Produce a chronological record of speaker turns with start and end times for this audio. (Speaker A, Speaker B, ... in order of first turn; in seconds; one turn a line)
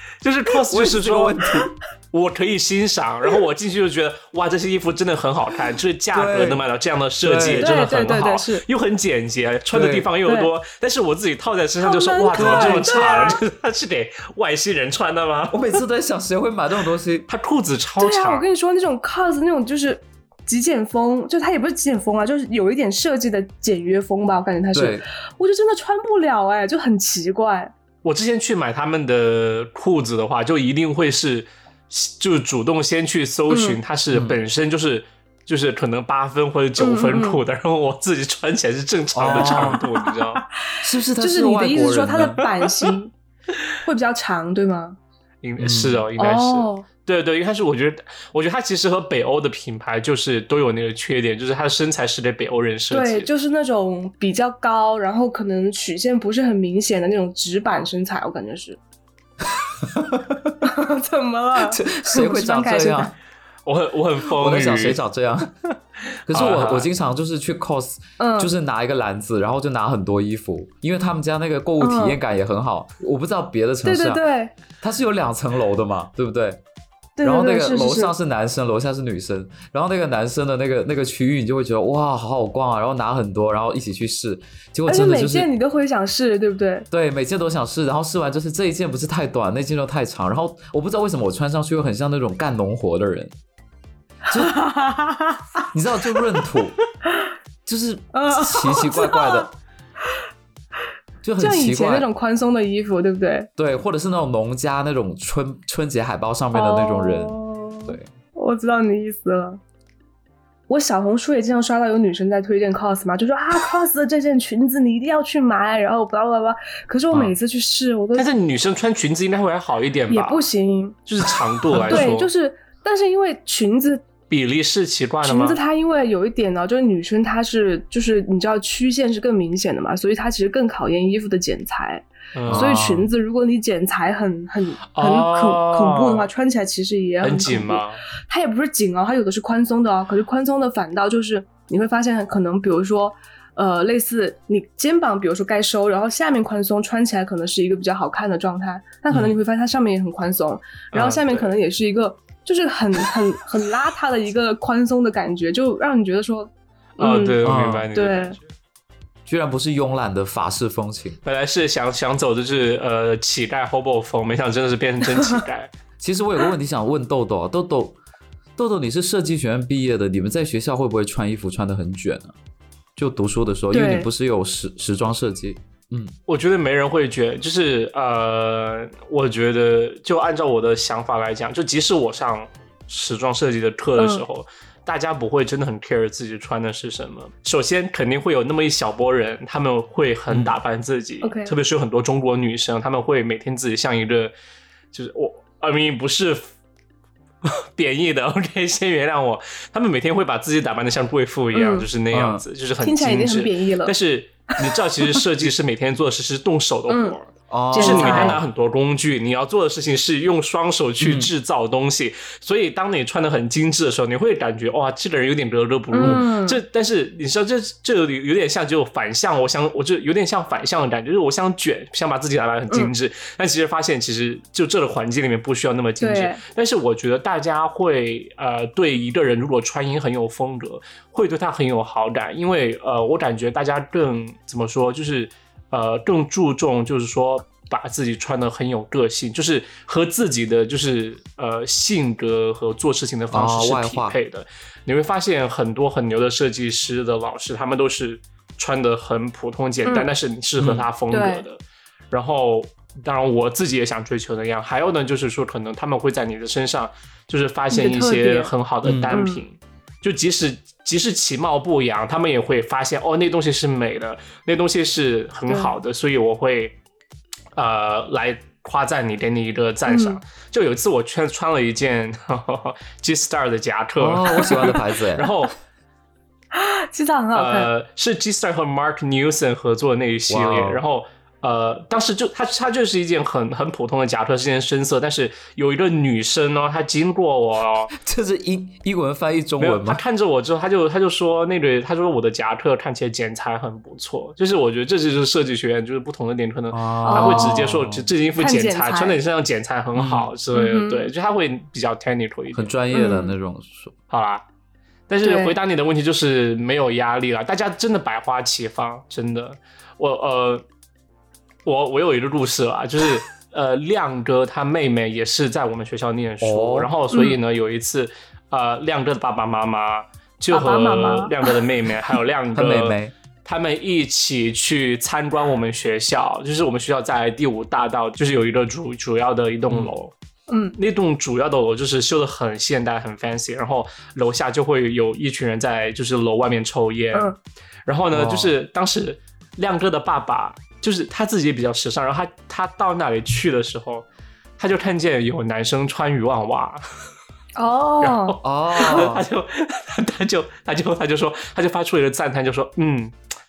Speaker A: 0.2-15.7
Speaker B: 0.7-1.7
Speaker B: 6.1-6.6
Speaker B: 7.2-7.7
Speaker C: 7.6-8.6
Speaker B: 9.7-10.1
Speaker C: 10.2-10.5
Speaker C: 11.8-13.4
Speaker B: 12.4-12.9
Speaker B: 15.5-17.3
Speaker A: 17.3-18.4
Speaker C: 18.0-27.7
Speaker B: 24.7-25.0
Speaker A: 28.0-40.4
Speaker C: 33.5-33.8
Speaker B: 34.1-34.4
Speaker C: 36.8-37.4
Speaker B: 39.1-39.8
Speaker C: 39.3-40.1
Speaker B: 40.8-42.5
Speaker C: 41.2-43.1
Speaker C: 43.8-45.0
Speaker A: 45.4-53.3
Speaker B: 45.6-46.0
Speaker C: 46.2-46.9
Speaker C: 52.9-58.8
Speaker B: 59.8-60.6
Speaker C: 60.6-63.1
Speaker B: 61.6-63.1
Speaker A: 63.6-65.0
Speaker B: 64.2-65.5
Speaker B: 66.3-74.2
Speaker A: 66.3-66.9
Speaker C: 68.2-68.5
Speaker C: 71.8-72.2
Speaker C: 73.8-74.5
Speaker B: 74.8-76.6
Speaker C: 77.2-78.1
Speaker B: 77.2-85.5
Speaker C: 84.8-86.9
Speaker B: 86.9-93.3
Speaker B: 94.3-94.6
Speaker C: 94.3-95.5
Speaker B: 95.7-96.8
Speaker B: 97.6-99.5
Speaker C: 98.1-99.5
Speaker B: 101.2-102.1
Speaker C: 101.4-103.5
Speaker B: 103.6-108.1
Speaker C: 106.5-109.6
Speaker C: 110.7-118.3
Speaker A: 118.1-120.4
Speaker C: 120.1-121.0
Speaker A: 121.1-122.3
Speaker B: 121.7-122.0
Speaker C: 121.9-124.0
Speaker A: 124.3-125.6
Speaker C: 125.2-157.4
Speaker A: 132.3-132.8
Speaker B: 132.5-133.1
Speaker A: 134.9-136.3
Speaker A: 137.2-138.0
Speaker A: 150.9-151.5
Speaker A: 157.0-158.5
Speaker B: 157.4-157.9
Speaker C: 157.9-158.3
Speaker B: 159.2-161.2
Speaker A: 161.2-165.7
Speaker B: 166.0-168.0
Speaker B: 168.6-172.3
Speaker B: 172.9-176.1
Speaker C: 173.7-174.1
Speaker A: 176.3-194.3
Speaker C: 184.0-184.2
Speaker B: 190.3-190.5
Speaker C: 191.2-191.5
Speaker A: 194.9-196.4
Speaker A: 197.4-251.6
Speaker C: 201.5-201.9
Speaker B: 202.1-202.4
Speaker C: 202.8-203.9
Speaker C: 206.9-207.2
Speaker B: 207.5-208.4
Speaker C: 207.7-208.4
Speaker B: 211.0-211.3
Speaker C: 215.9-216.6
Speaker C: 226.0-226.4
Speaker B: 243.3-244.2
Speaker B: 250.6-250.9
Speaker C: 251.1-251.4
Speaker A: 252.1-266.8
Speaker C: 257.7-258.5
Speaker B: 258.8-259.2
Speaker C: 259.1-259.4
Speaker A: 267.5-275.5
Speaker C: 269.9-270.2
Speaker B: 274.0-275.3
Speaker C: 274.4-274.7
Speaker C: 276.5-277.7
Speaker A: 277.3-287.9
Speaker B: 280.3-280.8
Speaker B: 287.9-290.0
Speaker A: 289.6-302.7
Speaker B: 296.7-298.1
Speaker C: 297.0-297.7
Speaker C: 298.3-299.2
Speaker B: 299.9-300.3
Speaker C: 300.5-301.1
Speaker B: 302.5-303.9
Speaker C: 302.9-303.3
Speaker A: 304.1-304.4
Speaker A: 305.1-310.6
Speaker C: 305.2-305.6
Speaker A: 311.6-330.1
Speaker B: 316.4-316.9
Speaker C: 317.1-317.4
Speaker C: 320.5-321.5
Speaker B: 322.5-323.1
Speaker C: 330.5-330.8
Speaker A: 330.8-337.3
Speaker A: 337.9-344.1
Speaker B: 338.1-338.6
Speaker A: 344.6-346.8
Speaker C: 347.6-349.1
Speaker A: 348.0-353.1
Speaker B: 348.4-349.3